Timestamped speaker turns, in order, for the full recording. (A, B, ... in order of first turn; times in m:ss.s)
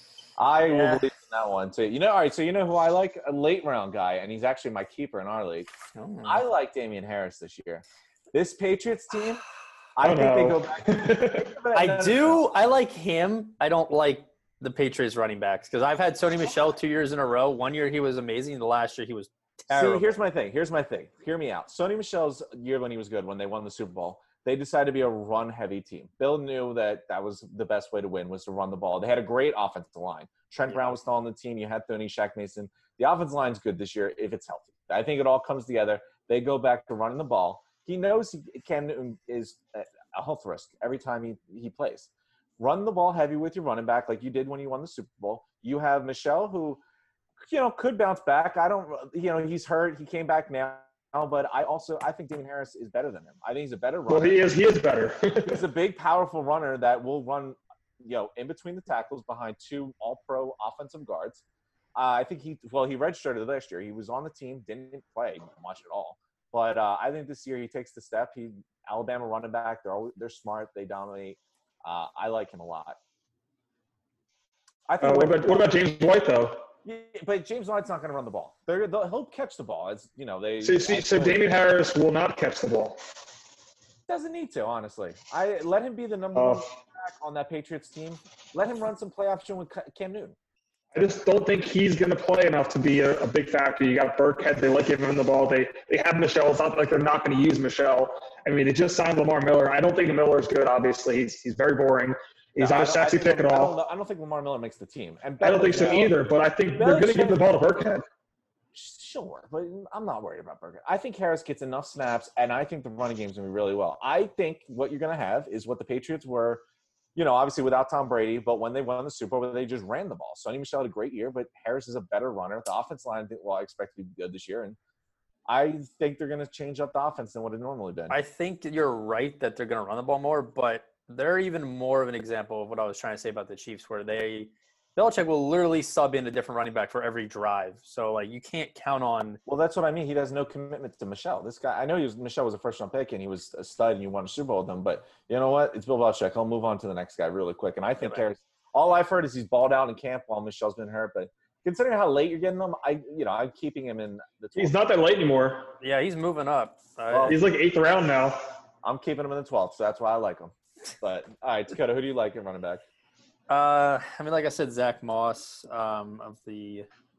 0:00.4-0:05.7 A
0:00.7-0:01.1 B
0:05.9-0:06.4 B
0:06.2-0:09.4 A
0:10.0-0:12.4 A
0:10.0-0:11.5 C
0:11.7-0:20.1 B
0:19.7-0:46.8 A
0:47.5-0:54.4 A
0:54.1-0:55.6 C
0:55.4-1:01.4 A
1:02.0-1:13.0 A
1:14.9-1:15.7 A
1:15.0-1:16.7 C
1:16.8-1:21.5 A
1:20.6-1:23.0 C
1:24.1-1:30.4 A
1:26.4-1:26.6 C
1:30.9-1:43.7 C
1:42.6-1:46.1 A
1:45.4-1:48.0 C
1:46.7-1:47.4 A
1:48.7-1:56.6 A
1:57.1-2:04.8 A
2:05.5-2:08.2 A
2:08.1-2:19.4 B
2:19.4-2:34.8 A
2:34.6-2:35.8 C
2:35.8-2:37.4 B
2:37.1-2:37.4 A
2:37.3-2:38.4 C
2:38.8-2:42.8 A
2:43.5-2:46.9 B